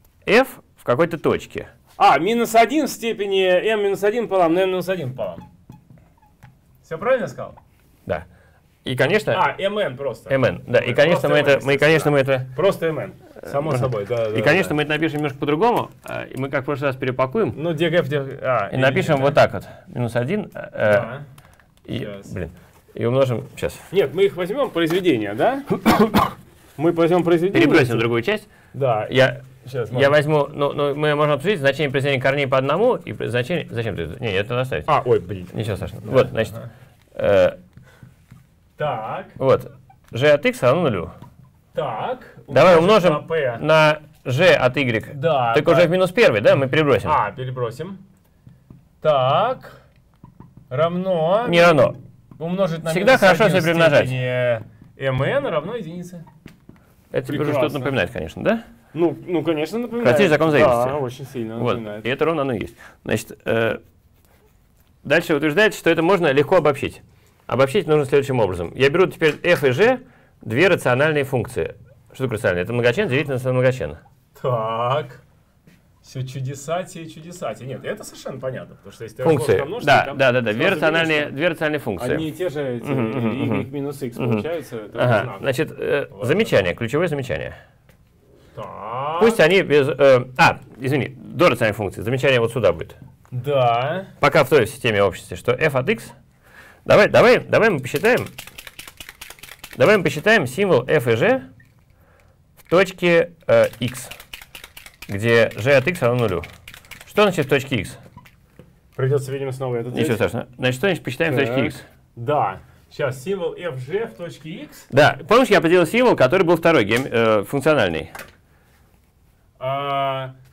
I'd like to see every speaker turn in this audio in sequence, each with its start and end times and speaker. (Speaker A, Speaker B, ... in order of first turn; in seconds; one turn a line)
Speaker A: 0.2-1.7
Speaker B: 2.0-5.4
Speaker B: 6.8-7.6
Speaker A: 8.8-9.4
Speaker B: 9.3-14.7
Speaker A: 10.3-12.5
Speaker A: 13.4-17.6
Speaker B: 17.5-19.4
Speaker A: 18.7-21.1
Speaker B: 20.8-21.2
Speaker A: 21.9-23.9
Speaker B: 21.9-22.3
Speaker B: 23.9-25.8
Speaker A: 25.7-26.4
Speaker B: 26.8-28.1
Speaker A: 27.5-28.5
Speaker B: 28.7-30.1
Speaker A: 29.1-34.9
Speaker B: 34.9-36.7
Speaker A: 35.5-36.6
Speaker A: 37.1-37.6
Speaker B: 38.8-39.4
Speaker A: 39.4-41.1
Speaker B: 41.7-43.6
Speaker A: 42.5-47.2
Speaker B: 45.1-45.9
Speaker B: 47.0-48.0
Speaker B: 49.0-49.8
Speaker B: 50.7-56.2
Speaker A: 51.4-52.0
Speaker A: 52.9-54.1
Speaker A: 57.1-58.6
Speaker B: 57.3-57.9
Speaker B: 58.9-62.1
Speaker A: 60.0-61.0
Speaker A: 61.5-63.8
Speaker A: 65.0-74.0
Speaker B: 74.3-75.2
Speaker B: 76.0-81.3
Speaker A: 79.2-82.3
Speaker B: 82.0-85.5
Speaker A: 82.8-87.6
Speaker B: 86.1-86.6
Speaker B: 88.5-89.4
Speaker A: 89.2-93.0
Speaker B: 93.3-94.1
Speaker A: 94.2-96.2
Speaker A: 96.8-98.3
Speaker A: 99.8-101.5
Speaker A: 102.7-104.1
Speaker A: 105.1-106.5
Speaker A: 107.1-108.0
Speaker B: 109.0-110.2
Speaker A: 109.9-111.8
Speaker B: 111.3-114.9
Speaker A: 114.9-118.1
Speaker B: 119.6-120.3